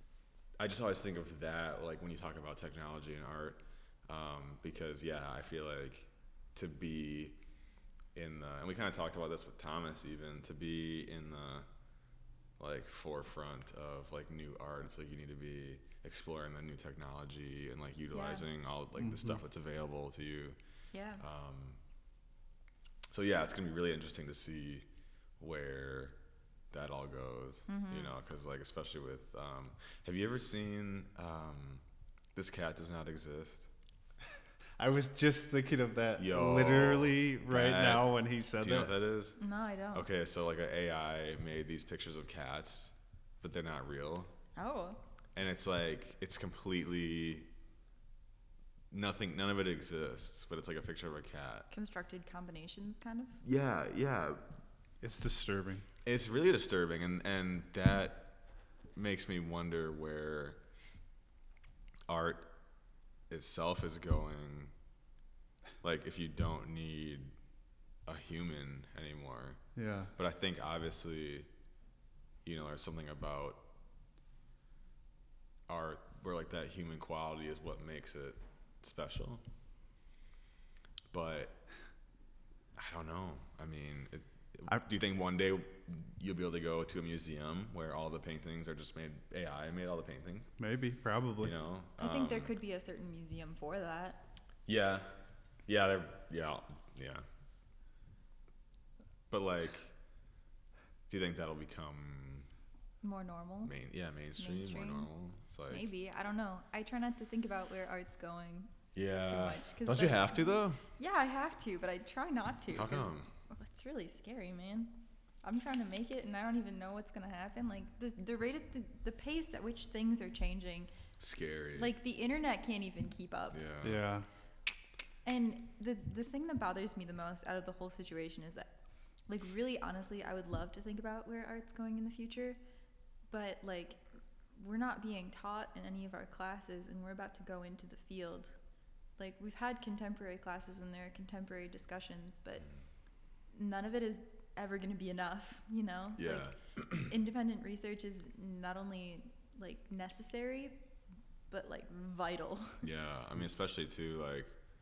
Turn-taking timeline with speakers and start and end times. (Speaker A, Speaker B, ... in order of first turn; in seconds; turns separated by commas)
Speaker A: 0.6-7.4, Speaker A: 8.1-11.7, Speaker A: 12.6-20.6, Speaker B: 18.1-18.4, Speaker C: 19.0-19.4, Speaker B: 20.9-21.2, Speaker A: 21.2-21.8, Speaker A: 23.1-24.9, Speaker A: 25.4-26.2, Speaker A: 26.7-31.8, Speaker B: 27.7-28.1, Speaker A: 32.3-33.7, Speaker C: 34.8-39.0, Speaker A: 36.2-39.4, Speaker B: 39.4-40.1, Speaker A: 39.9-44.3, Speaker B: 44.5-45.0, Speaker A: 45.3-47.5, Speaker A: 48.9-51.7, Speaker B: 51.7-53.4, Speaker A: 53.4-54.5, Speaker C: 55.0-55.9, Speaker A: 56.0-58.4, Speaker A: 58.9-60.6, Speaker A: 62.1-62.5, Speaker A: 63.3-64.7, Speaker A: 65.8-67.3, Speaker A: 68.0-69.6, Speaker C: 69.8-70.1, Speaker A: 70.1-71.5, Speaker A: 72.4-73.7, Speaker A: 75.7-79.4, Speaker A: 81.1-81.6, Speaker A: 82.8-90.5, Speaker C: 90.6-91.5, Speaker A: 91.4-92.5, Speaker B: 92.0-94.2, Speaker A: 94.7-95.1, Speaker A: 95.7-97.2, Speaker A: 99.3-99.9, Speaker A: 101.1-102.5, Speaker B: 103.0-103.7, Speaker A: 103.6-105.8, Speaker B: 104.4-105.1, Speaker B: 105.7-120.9, Speaker A: 108.9-110.8, Speaker A: 112.7-113.3, Speaker A: 121.2-121.9, Speaker B: 121.8-123.6, Speaker A: 123.5-124.0, Speaker C: 123.8-124.3, Speaker B: 125.2-128.7, Speaker B: 129.3-132.6, Speaker B: 133.3-138.5, Speaker B: 139.2-142.7, Speaker B: 143.5-150.8, Speaker A: 146.2-147.1, Speaker B: 151.5-152.8, Speaker A: 152.8-154.5